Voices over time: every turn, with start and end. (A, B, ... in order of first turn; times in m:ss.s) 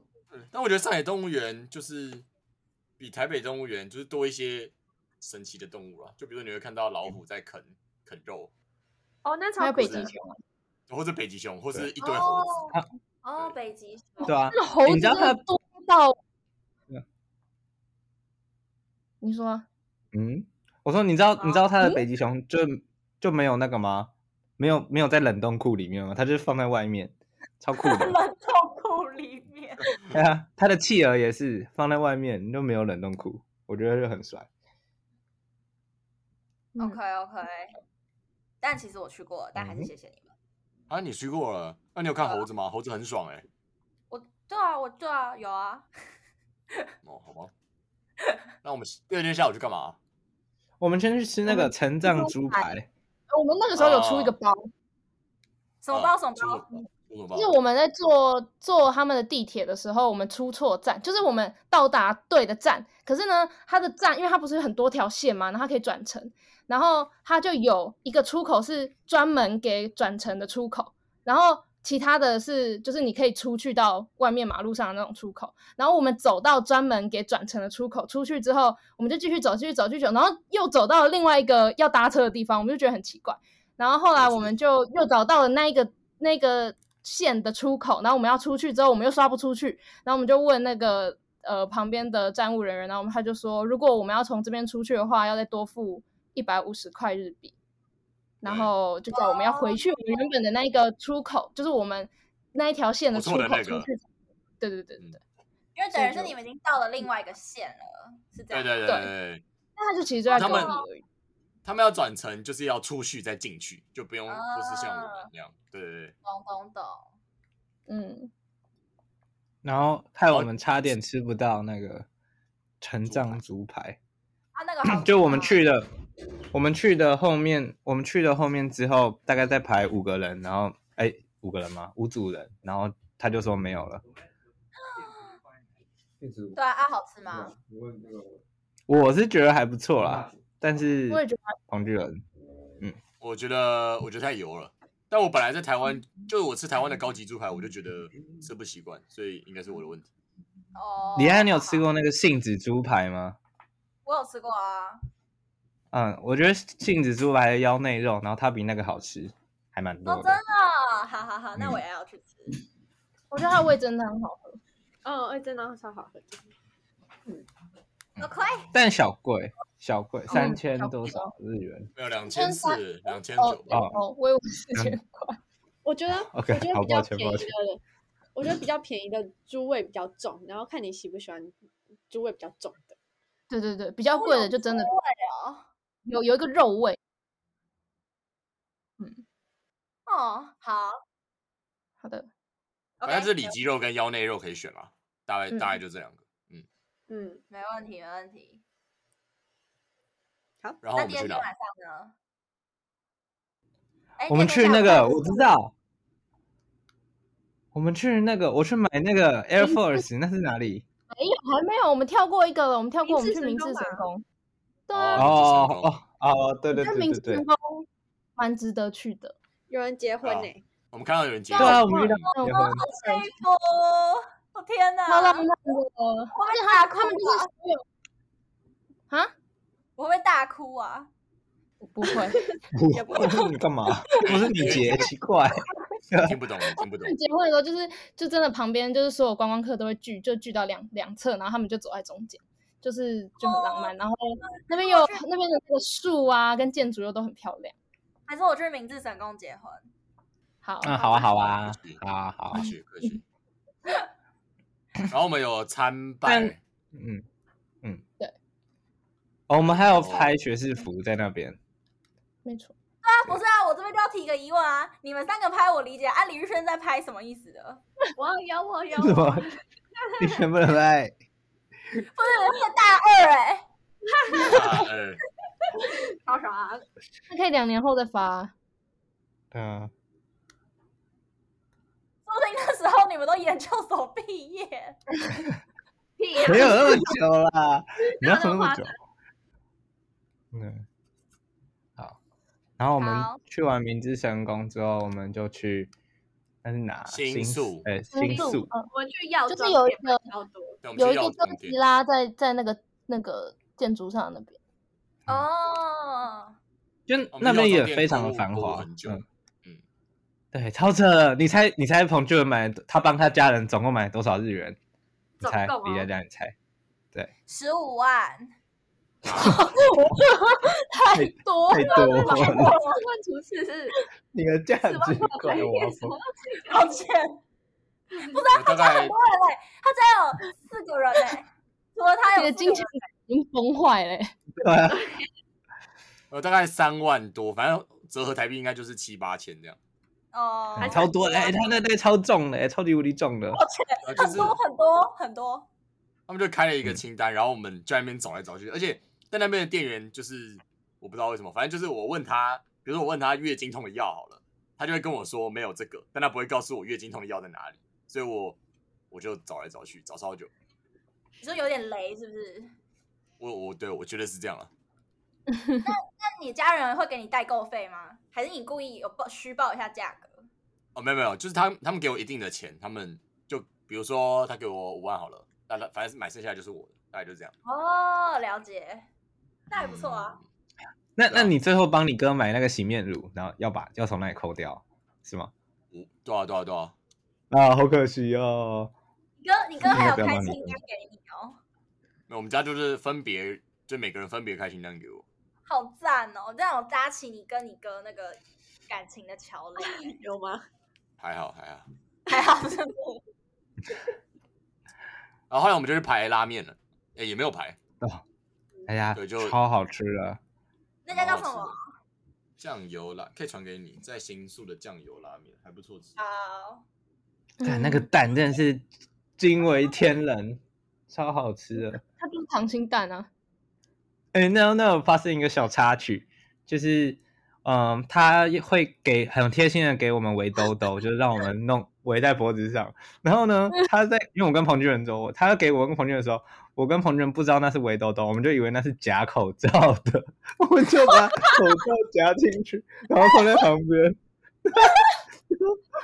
0:00.3-0:02.2 A
0:03.0-0:08.5 A
0:09.2-0:10.1 B
0:09.6-0:10.4 C
0:09.8-0:10.1 A
0:10.9-0:12.6 A
0:12.0-0:14.4 D
0:14.2-0:15.4 E
0:14.3-0:16.2 C
0:19.2-0:19.6 C
0:20.1-0:28.2 E
0:27.8-0:29.9 D
0:30.1-0:34.5 E
0:36.8-0:37.7 D
0:38.6-0:40.3 D
0:39.6-0:39.9 E
0:40.9-0:43.4 A
0:44.1-0:45.9 D
0:47.0-0:47.5 A
0:48.6-0:50.0 A
0:50.8-0:52.9 E
0:51.5-0:52.7 C
0:53.3-0:54.7 C
0:53.7-0:54.3 A
0:55.8-0:56.7 D
0:55.9-0:57.5 A
0:57.3-1:37.5 C
1:24.1-1:24.5 A
1:38.4-1:44.0 C
1:38.4-1:38.7 A
1:39.1-1:39.8 D
1:43.1-1:43.9 A
1:44.6-1:45.2 C
1:45.8-1:48.9 D
1:45.9-1:46.3 C
1:48.5-1:49.4 A
1:49.8-1:51.0 C
1:50.3-1:50.8 D
1:50.3-1:50.7 A
1:51.6-1:56.1 A
1:54.3-1:55.3 D
1:56.2-1:57.1 D
1:57.9-1:58.3 C
1:59.6-2:02.1 E
2:02.8-2:04.0 E
2:03.0-2:03.4 A
2:04.5-2:05.6 D
2:04.8-2:05.9 E
2:06.5-2:14.0 E
2:14.8-2:15.4 D
2:16.2-2:16.5 E
2:16.5-2:17.5 D
2:17.5-2:18.2 E
2:18.9-2:22.2 E
2:21.1-2:21.6 C
2:23.2-2:30.1 A
2:30.7-2:31.8 D
2:31.2-2:33.4 E
2:34.0-2:35.0 D
2:35.9-2:40.4 E
2:40.0-2:42.6 D
2:43.3-2:44.6 C
2:45.0-2:46.4 B
2:48.2-2:48.7 D
2:48.2-2:51.9 E
2:50.3-2:51.3 C
2:52.0-2:53.7 A
2:52.3-2:55.4 C
2:53.7-2:54.0 E
2:55.8-2:57.8 B
2:56.3-2:57.5 E
2:58.3-3:01.6 B
3:02.1-3:03.0 B
3:03.5-3:04.9 C
3:04.1-3:05.6 D
3:06.0-3:07.0 C
3:10.1-3:11.0 D
3:12.0-3:12.3 C
3:13.0-3:13.6 D
3:13.0-3:16.6 A
3:15.5-3:15.8 C
3:17.1-3:17.4 B
3:17.5-3:18.6 D
3:20.8-3:21.5 A
3:20.9-3:22.1 D
3:24.2-3:25.4 D
3:24.3-3:25.7 E
3:24.8-3:25.2 C
3:27.7-3:30.8 E
3:29.6-3:30.0 C
3:31.1-3:34.2 C
3:33.0-3:34.0 B
3:34.9-3:35.3 C
3:34.9-3:35.9 A
3:35.2-3:37.4 E
3:36.7-3:39.4 C
3:39.7-3:40.6 B
3:40.2-3:42.2 A
3:41.6-3:42.8 E
3:42.3-3:43.3 C
3:42.4-3:45.5 D
3:45.1-3:47.8 C
3:46.3-3:47.5 D
3:50.0-3:51.1 D
3:51.8-3:52.5 C
3:52.3-3:52.5 B
3:52.7-3:56.4 E
3:54.2-3:55.1 A
3:56.2-3:57.2 A
3:57.0-4:07.7 C
4:03.4-4:05.2 D
4:08.3-4:09.8 D
4:10.6-4:11.3 C
4:10.8-4:12.7 E
4:11.4-4:13.2 A
4:15.1-4:16.6 A
4:16.2-4:17.2 E
4:19.5-4:21.6 E
4:19.6-4:20.3 A
4:22.4-4:22.7 C
4:23.0-4:27.8 D
4:28.2-4:30.3 B
4:29.0-4:29.5 E
4:30.2-4:31.1 E
4:32.0-4:33.6 D
4:34.0-4:34.6 B
4:34.4-4:35.2 A
4:35.8-4:36.8 B
4:37.3-4:38.5 C
4:39.5-4:39.9 E
4:42.2-4:45.0 D
4:46.2-4:47.1 B
4:46.4-4:48.9 E
4:46.5-4:46.9 D
4:48.3-4:48.8 B
4:50.5-4:50.8 E
4:52.8-4:55.9 E
4:53.0-4:53.4 D
4:56.6-4:58.7 E
4:57.1-4:57.9 A
4:58.1-4:58.9 C
4:58.2-5:00.8 B
4:59.5-5:00.2 C
5:00.8-5:01.8 A
5:00.9-5:04.6 C
5:05.3-5:06.6 D
5:07.1-5:09.2 E
5:07.3-5:09.8 A
5:10.5-5:14.8 E
5:15.4-5:16.1 B
5:15.4-5:16.5 E
5:17.5-5:18.5 D
5:19.3-5:22.0 C
5:21.1-5:22.7 E
5:21.4-5:24.0 B
5:22.2-5:23.0 D
5:24.3-5:26.2 E
5:24.8-5:26.9 B
5:26.7-5:27.4 D
5:28.2-5:32.9 D
5:28.5-5:29.1 A
5:32.4-5:34.3 C
5:34.5-5:35.0 E
5:34.9-5:35.2 B
5:36.3-5:39.8 A
5:40.3-5:41.1 D
5:40.8-5:43.6 E
5:40.8-5:41.7 B
5:43.5-5:45.7 D
5:44.0-5:44.6 A
5:46.3-5:58.6 A
5:59.1-6:00.5 A
6:01.4-6:02.7 D
6:03.4-6:04.7 A
6:05.5-6:05.9 C
6:05.8-6:10.5 D
6:10.9-6:17.5 A
6:17.6-6:19.1 D
6:19.7-6:20.4 D
6:19.7-6:20.4 A
6:21.2-6:25.5 E
6:25.9-6:26.9 A
6:27.5-6:28.9 E
6:29.4-6:31.6 D
6:29.8-6:30.8 E
6:32.3-6:35.2 A
6:35.6-6:40.2 D
6:39.9-6:40.6 B
6:41.2-6:41.8 A
6:42.3-6:43.2 D
6:45.5-6:47.8 A
6:48.9-6:50.4 E
6:49.1-6:49.6 A
6:51.0-6:51.8 D
6:51.1-6:51.8 A
6:52.6-6:56.1 A
6:56.2-6:56.8 D
6:57.6-6:58.1 C
6:57.6-6:58.8 E
6:59.4-7:02.0 E
7:02.2-7:03.3 C
7:04.3-7:25.8 E